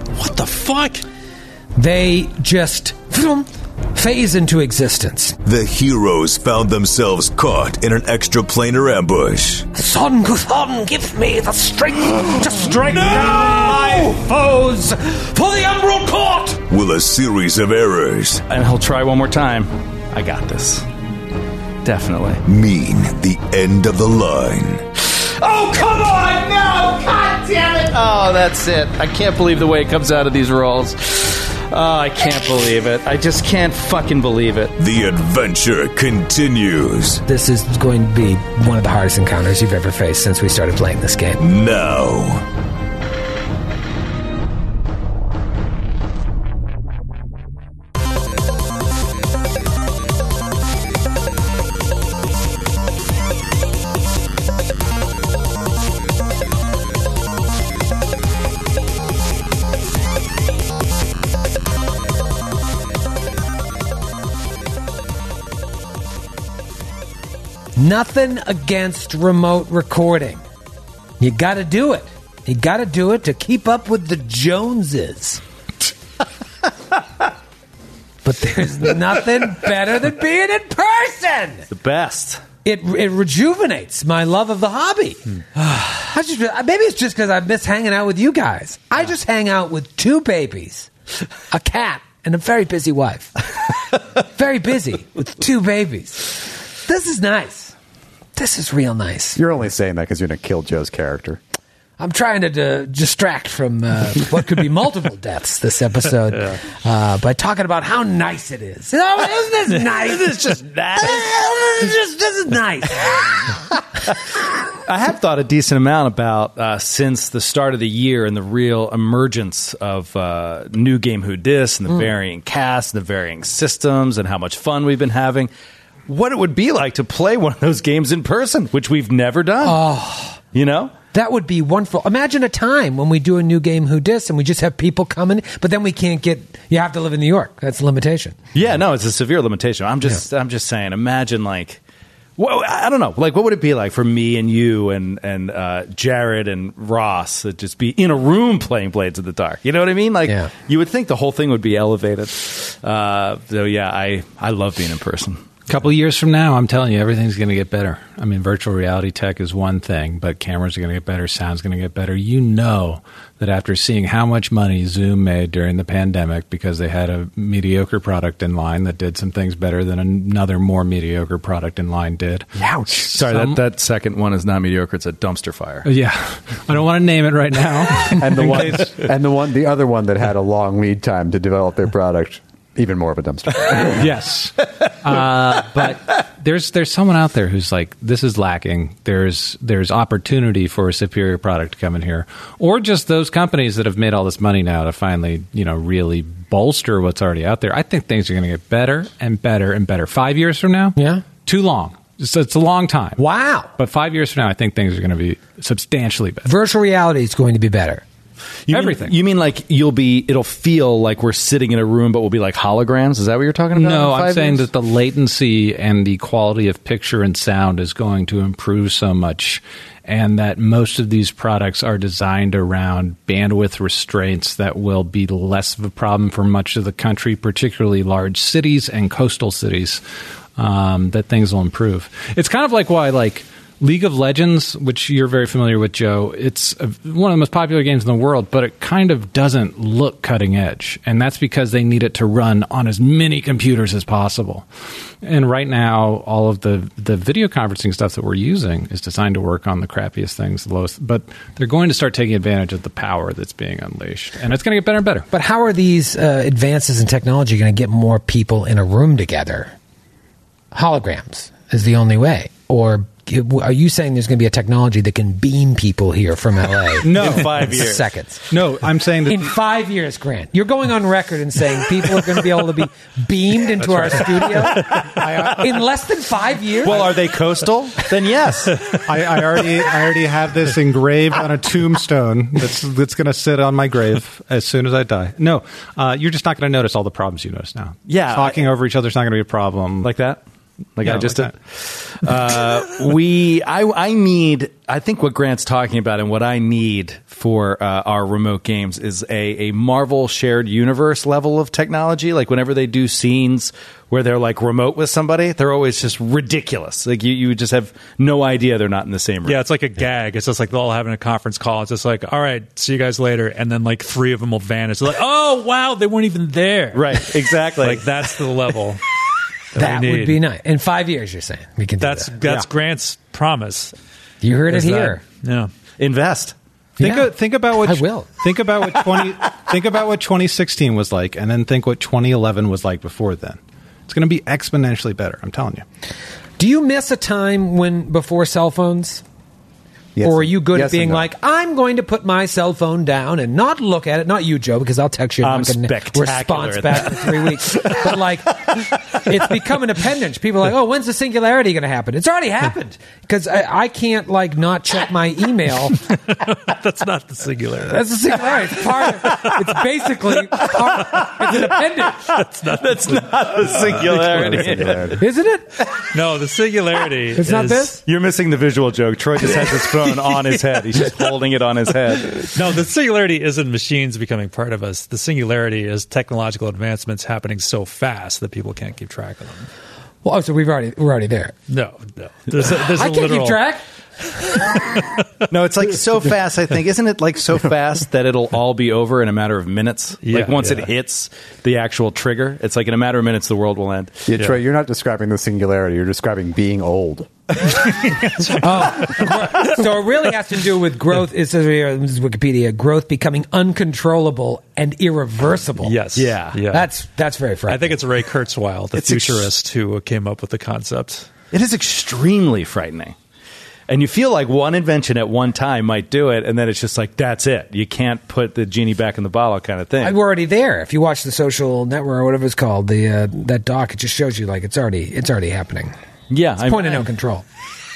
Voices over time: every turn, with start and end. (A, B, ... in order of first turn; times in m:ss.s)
0:00.2-0:01.0 A
0:01.8-0:05.4 B
0:05.4-0:09.6 C
0:09.7-0:16.6 B
0:13.1-0:14.1 D
0:16.6-0:18.4 C
0:18.5-0:20.9 D
0:21.8-0:22.4 D
0:22.4-0:24.8 C
0:25.0-0:34.7 D
0:34.8-0:37.2 C
0:37.2-0:41.4 B
0:41.4-0:42.4 C
1:07.8-1:10.4 B
1:11.2-1:15.4 B
1:18.2-1:21.6 B
1:21.7-1:22.4 D
1:22.6-1:30.9 B
1:31.5-1:33.4 B
1:34.2-1:37.7 B
1:38.4-1:39.4 B
1:39.4-1:41.4 E
1:42.0-1:53.6 B
1:50.0-1:51.9 D
1:54.7-2:05.5 D
2:06.1-2:09.8 D
2:09.6-2:10.4 B
2:10.5-2:10.9 D
2:11.1-2:18.4 B
2:18.5-2:21.8 D
2:22.4-2:35.5 D
2:35.7-2:53.6 F
2:52.9-2:55.9 D
2:55.8-2:59.1 F
2:58.1-3:04.2 E
3:03.9-3:23.2 F
3:21.0-3:21.2 B
3:23.2-3:23.7 B
3:23.8-3:26.5 F
3:26.4-3:28.0 B
3:28.7-3:34.7 D
3:28.7-3:29.2 F
3:33.8-3:50.0 F
3:50.6-4:04.7 F
4:05.2-4:15.3 F
4:15.3-4:19.7 B
4:20.7-4:28.4 B
4:27.0-4:27.8 F
4:27.1-4:28.1 D
4:28.5-4:29.5 F
4:29.2-4:37.2 B
4:34.6-4:35.6 D
4:35.2-4:35.6 F
4:36.8-4:39.5 D
4:39.0-4:50.1 F
4:48.1-4:48.7 D
4:50.0-4:50.4 D
4:51.0-5:09.6 D
4:51.0-4:51.5 F
5:09.4-5:19.0 A
5:16.9-5:18.4 D
5:19.7-5:20.4 A
5:19.7-5:22.3 B
5:22.0-5:23.9 A
5:24.4-5:25.2 B
5:24.7-5:25.7 A
5:26.0-5:26.5 D
5:27.0-5:28.3 B
5:27.0-5:35.8 F
5:36.6-5:39.2 B
5:40.1-5:41.2 E
5:40.2-5:56.0 B
5:45.4-5:49.2 D
5:56.3-5:58.0 A
5:57.8-6:02.3 B
6:00.6-6:01.6 D
6:02.3-6:04.8 A
6:02.7-6:05.2 D
6:03.9-6:05.2 E
6:05.2-6:05.7 B
6:06.1-6:08.0 A
6:07.4-6:08.0 B
6:08.0-6:12.5 D
6:12.4-6:19.7 A
6:20.2-6:21.5 B
6:21.7-6:23.6 A
6:22.6-6:23.8 B
6:25.5-6:34.3 D
6:30.2-6:30.9 A
6:34.3-6:37.3 E
6:38.0-6:39.5 A
6:38.6-6:46.0 B
6:45.8-6:46.9 A
6:46.2-6:46.6 D
6:46.7-6:48.0 B
6:47.7-6:51.3 A
6:48.9-6:49.5 D
6:51.5-6:53.2 D
6:53.9-7:00.1 D
7:00.0-7:05.9 B
7:06.3-7:07.1 D
7:06.6-7:07.4 B